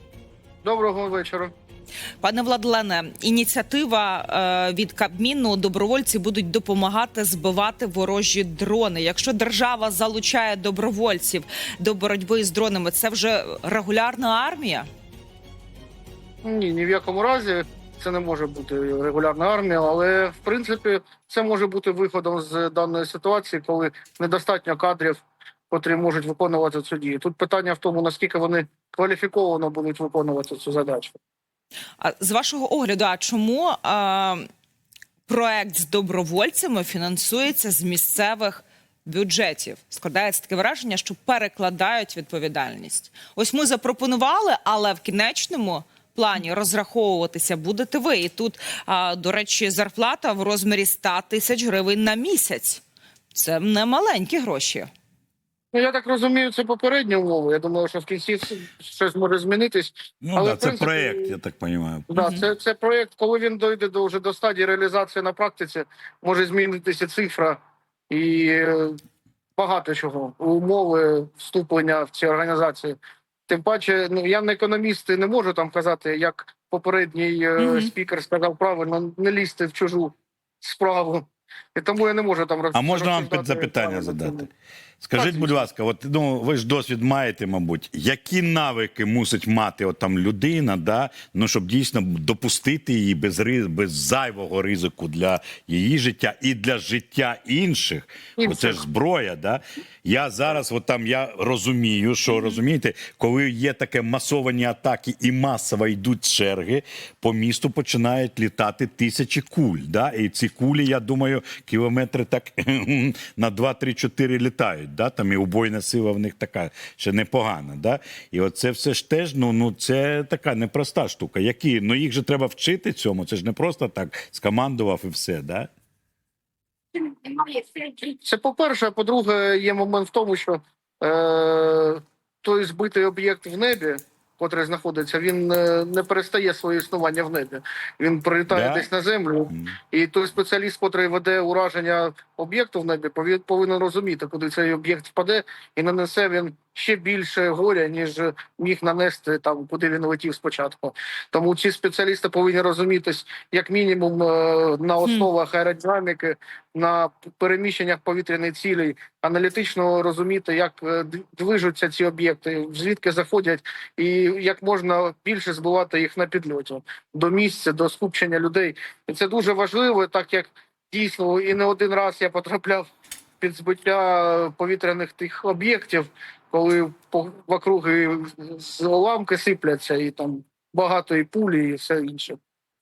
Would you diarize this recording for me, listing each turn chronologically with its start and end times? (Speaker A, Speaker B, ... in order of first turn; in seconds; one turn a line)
Speaker A: 0.6-1.5
Speaker B: 2.2-14.9
Speaker A: 16.4-31.1
Speaker B: 32.0-34.4
Speaker B: 35.3-54.9
Speaker A: 55.7-61.3
Speaker C: 60.2-62.1
Speaker A: 62.1-69.0
Speaker B: 62.2-62.4
Speaker A: 69.5-73.0
Speaker A: 73.5-84.5
Speaker B: 77.6-77.9
Speaker C: 82.7-84.5
Speaker C: 85.0-125.7
Speaker A: 85.2-85.7
Speaker A: 98.4-98.8
Speaker A: 127.1-172.9
Speaker C: 138.5-138.9
Speaker C: 139.5-139.8
Speaker B: 155.0-155.3
Speaker A: 173.4-182.4